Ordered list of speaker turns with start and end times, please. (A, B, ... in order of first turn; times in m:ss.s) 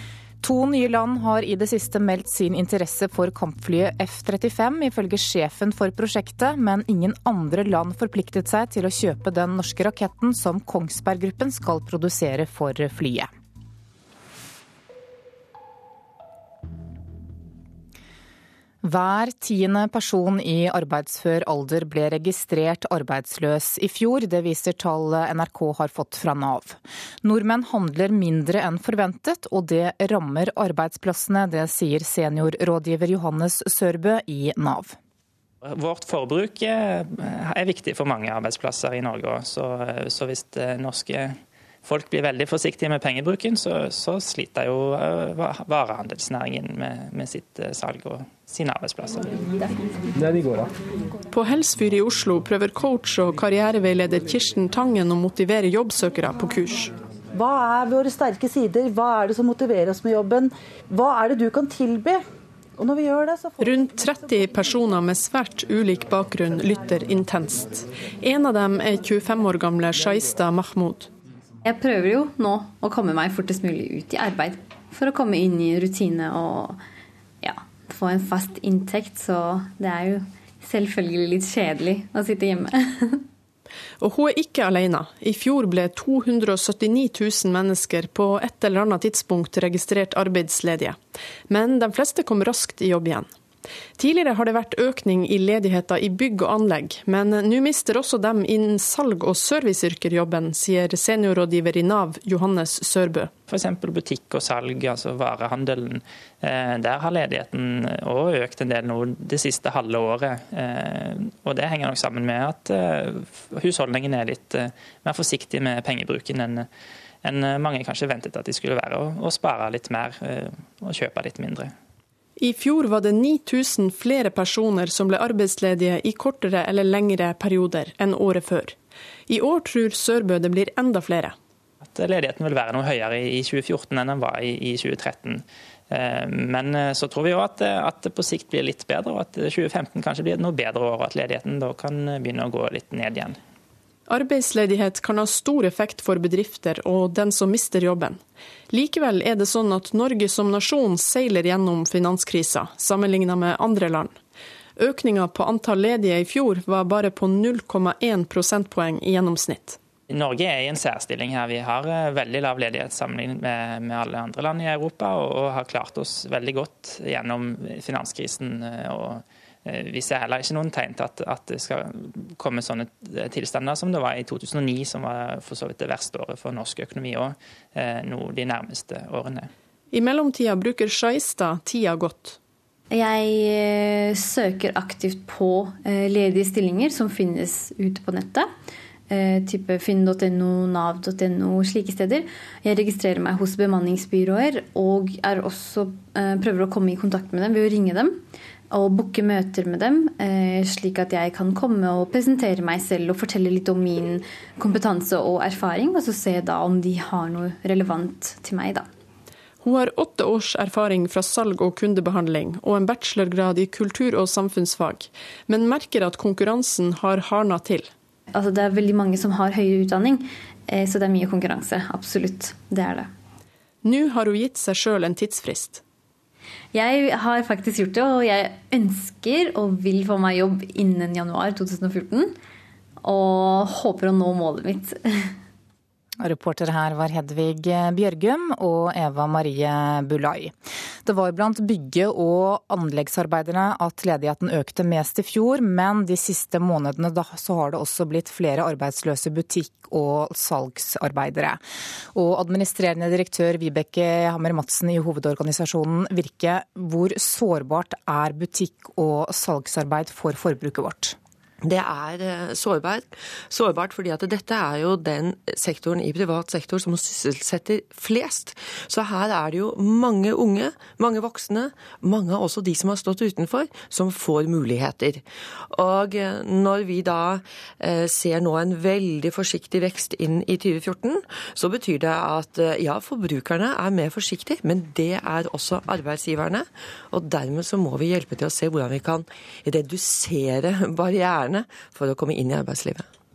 0:00.4-0:13.3 A
0:18.8-0:35.0 A
0:35.6-0:49.3 B
0:50.2-0:50.7 C
0:51.3-0:56.9 D
0:57.3-1:02.2 C
1:02.8-1:03.7 C
1:03.6-1:11.1 D
1:11.6-1:16.8 E
1:17.4-1:23.2 E
1:24.0-1:31.0 D
1:31.5-1:33.3 D
1:34.0-1:43.3 D
1:43.5-1:56.7 B
1:57.2-2:01.7 B
2:02.4-2:08.7 D
2:09.3-2:11.4 D
2:11.8-2:23.4 B
2:24.1-2:28.2 D
2:28.7-2:34.2 D
2:34.8-2:39.8 D
2:40.1-2:59.5 B
2:59.9-3:02.4 D
3:02.9-3:08.5 E
3:09.1-3:28.9 E
3:29.6-3:37.9 D
3:38.3-3:43.1 E
3:43.8-3:45.8 D
3:46.7-3:52.4 E
3:53.0-3:55.3 E
3:56.2-4:00.5 A
4:01.0-4:11.6 A
4:12.1-4:21.2 A
4:21.6-4:53.0 F